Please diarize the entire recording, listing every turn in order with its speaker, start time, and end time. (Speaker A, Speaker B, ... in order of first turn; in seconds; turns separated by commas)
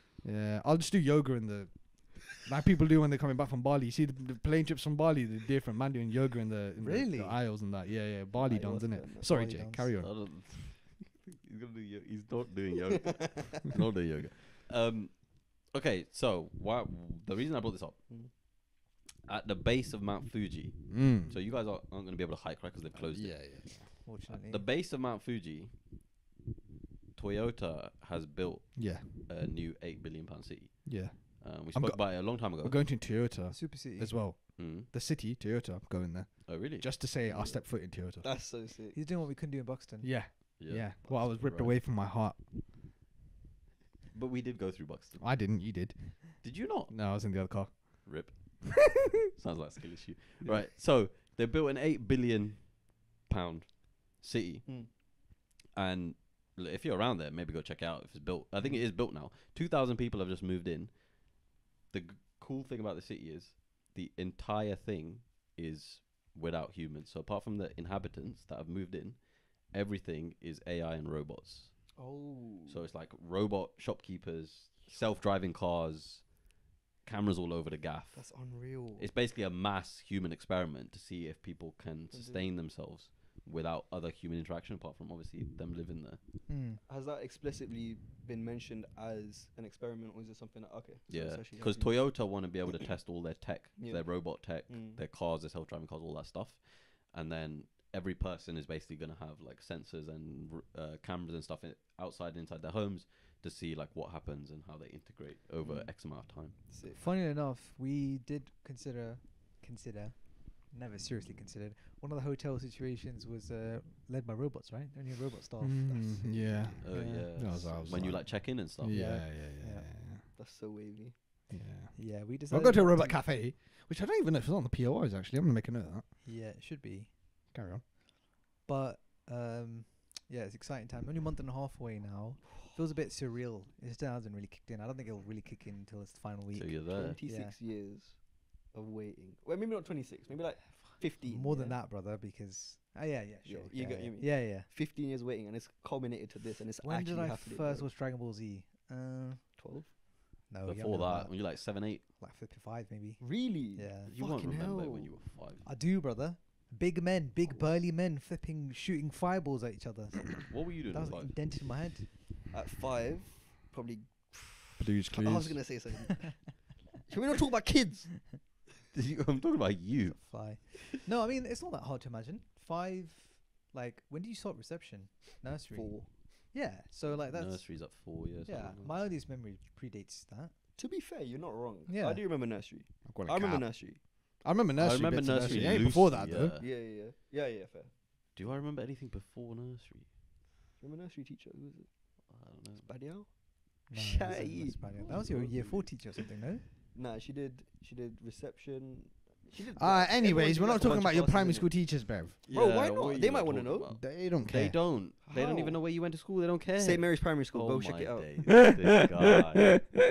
Speaker A: 0.2-10.2, Speaker B: 6.8-7.4, Speaker C: 8.3-9.4, Speaker B: 9.3-9.9, Speaker D: 10.0-18.1, Speaker C: 13.1-13.6, Speaker D: 19.2-25.8, Speaker A: 20.9-21.4, Speaker A: 22.9-24.0, Speaker B: 24.1-24.7, Speaker D: 27.1-33.0, Speaker A: 28.8-29.1, Speaker A: 30.9-38.3, Speaker B: 33.5-34.2, Speaker D: 34.6-34.9, Speaker D: 36.5-37.0, Speaker C: 37.2-39.0, Speaker B: 38.9-40.2, Speaker A: 40.0-42.4, Speaker D: 40.6-41.8, Speaker D: 44.1-45.6, Speaker A: 45.2-48.4, Speaker D: 46.4-55.2, Speaker C: 54.7-54.9, Speaker D: 55.7-72.0, Speaker C: 72.0-72.8, Speaker D: 72.7-76.5, Speaker D: 77.0-86.5, Speaker C: 78.1-79.1, Speaker C: 82.1-82.5, Speaker B: 86.5-86.8, Speaker C: 86.8-92.2, Speaker D: 91.1-106.7, Speaker C: 93.8-95.0, Speaker C: 105.6-107.0, Speaker B: 106.9-117.7, Speaker A: 115.6-120.3, Speaker C: 116.2-116.9, Speaker D: 116.8-119.0, Speaker B: 118.9-119.9, Speaker C: 120.3-121.2, Speaker A: 121.5-126.1, Speaker B: 122.0-123.4, Speaker B: 126.2-127.2, Speaker A: 127.5-127.9, Speaker B: 128.6-137.5, Speaker D: 136.5-137.2, Speaker C: 136.9-141.8, Speaker B: 141.0-144.7, Speaker C: 143.4-147.9, Speaker B: 146.8-149.6, Speaker C: 149.6-149.9, Speaker B: 150.5-154.1, Speaker D: 150.7-152.1, Speaker C: 153.2-155.2, Speaker D: 154.1-155.7, Speaker B: 155.6-162.1, Speaker C: 157.4-157.8, Speaker D: 160.5-161.6, Speaker C: 162.5-168.5, Speaker A: 164.8-165.7, Speaker D: 168.9-170.7, Speaker B: 170.1-180.6, Speaker C: 175.7-176.1, Speaker D: 177.3-179.1, Speaker C: 180.8-184.0, Speaker B: 181.9-182.2, Speaker A: 183.0-186.6, Speaker D: 184.8-186.7, Speaker C: 186.6-187.9, Speaker D: 188.3-190.2, Speaker C: 190.8-195.9, Speaker D: 192.3-192.9, Speaker B: 193.9-196.7, Speaker D: 195.1-195.4, Speaker C: 196.9-203.9, Speaker A: 199.8-202.4, Speaker D: 202.5-210.0, Speaker A: 203.9-205.0, Speaker C: 205.3-205.8, Speaker C: 206.8-208.4